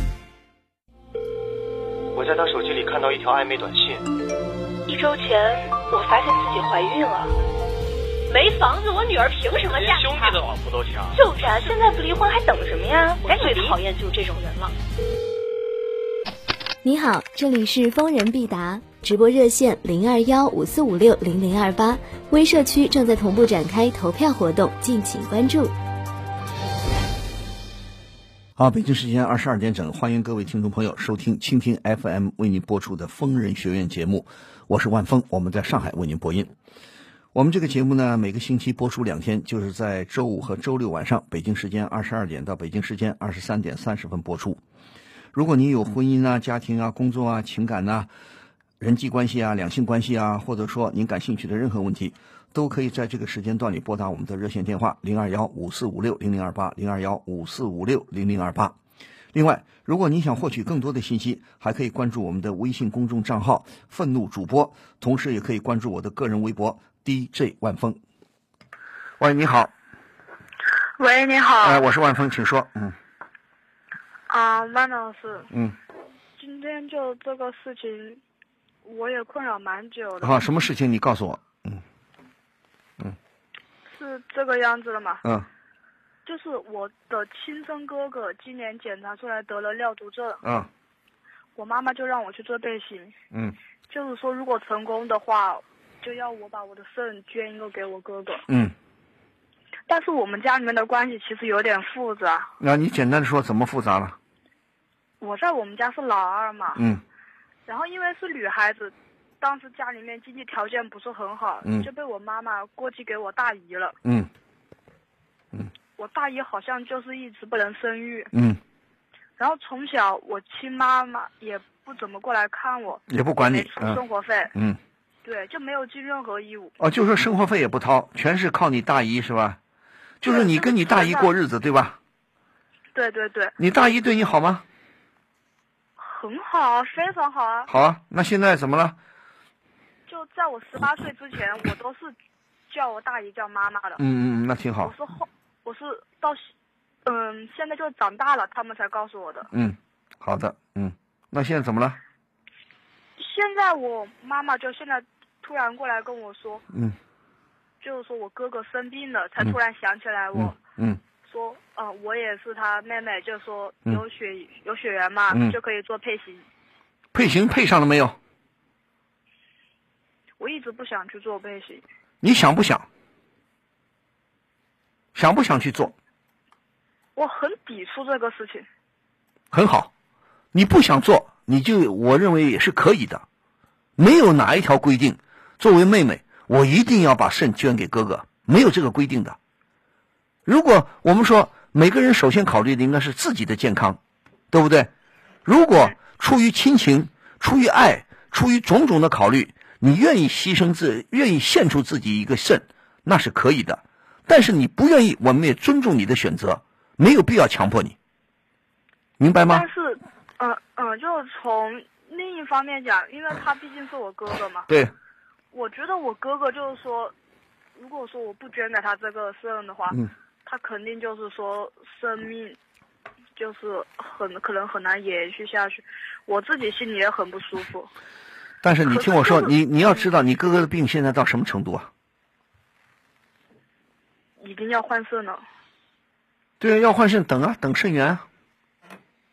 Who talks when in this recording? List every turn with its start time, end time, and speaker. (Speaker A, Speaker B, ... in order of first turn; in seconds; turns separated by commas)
Speaker A: 2.1-4.1, Speaker B: 4.9-7.3, Speaker B: 8.3-10.5, Speaker A: 9.7-11.2, Speaker B: 11.1-14.8, Speaker C: 16.8-25.8, Speaker D: 28.6-36.5, Speaker D: 37.3-44.6, Speaker D: 45.3-48.1, Speaker D: 48.8-58.8, Speaker D: 59.3-68.0, Speaker D: 69.2-69.7, Speaker E: 71.0-71.9, Speaker D: 71.6-73.0, Speaker E: 74.3-75.5, Speaker D: 75.5-75.8, Speaker E: 76.4-78.2, Speaker E: 78.8-80.5, Speaker D: 80.2-81.8, Speaker E: 83.9-85.2, Speaker E: 86.3-90.4, Speaker D: 90.4-90.7, Speaker E: 91.6-93.2, Speaker E: 93.9-98.5, Speaker D: 98.5-98.8, Speaker E: 99.9-102.5, Speaker D: 102.6-104.2, Speaker E: 105.2-106.8, Speaker D: 106.8-107.0, Speaker E: 107.7-114.0, Speaker D: 114.0-114.3, Speaker E: 116.0-118.3, Speaker D: 118.3-118.6, Speaker E: 119.4-124.5, Speaker D: 123.1-124.0, Speaker E: 125.2-126.8, Speaker D: 126.8-129.6, Speaker D: 130.2-132.0, Speaker E: 130.2-131.3, Speaker E: 132.9-133.6, Speaker D: 133.6-134.7, Speaker E: 136.0-137.7, Speaker D: 137.7-139.0, Speaker E: 140.1-142.2, Speaker E: 142.7-144.0, Speaker D: 144.0-144.9, Speaker E: 144.8-146.5, Speaker E: 147.1-149.5, Speaker D: 149.5-152.0, Speaker E: 153.2-156.7, Speaker D: 156.7-157.0, Speaker E: 157.8-160.6, Speaker D: 160.3-161.0, Speaker E: 161.3-166.5, Speaker D: 165.3-165.6, Speaker D: 167.1-168.2, Speaker E: 170.4-171.8, Speaker D: 172.2-172.9, Speaker D: 175.2-175.9, Speaker E: 177.2-178.7, Speaker D: 179.5-179.9, Speaker D: 180.5-183.2, Speaker D: 184.0-189.4, Speaker D: 190.5-194.0, Speaker D: 194.5-194.9, Speaker D: 195.4-208.0, Speaker D: 209.2-209.7, Speaker E: 209.5-214.7, Speaker E: 215.5-217.1, Speaker E: 217.8-222.6, Speaker E: 223.4-227.9, Speaker D: 228.6-231.9, Speaker E: 228.9-229.5, Speaker E: 234.4-235.4, Speaker D: 236.6-238.2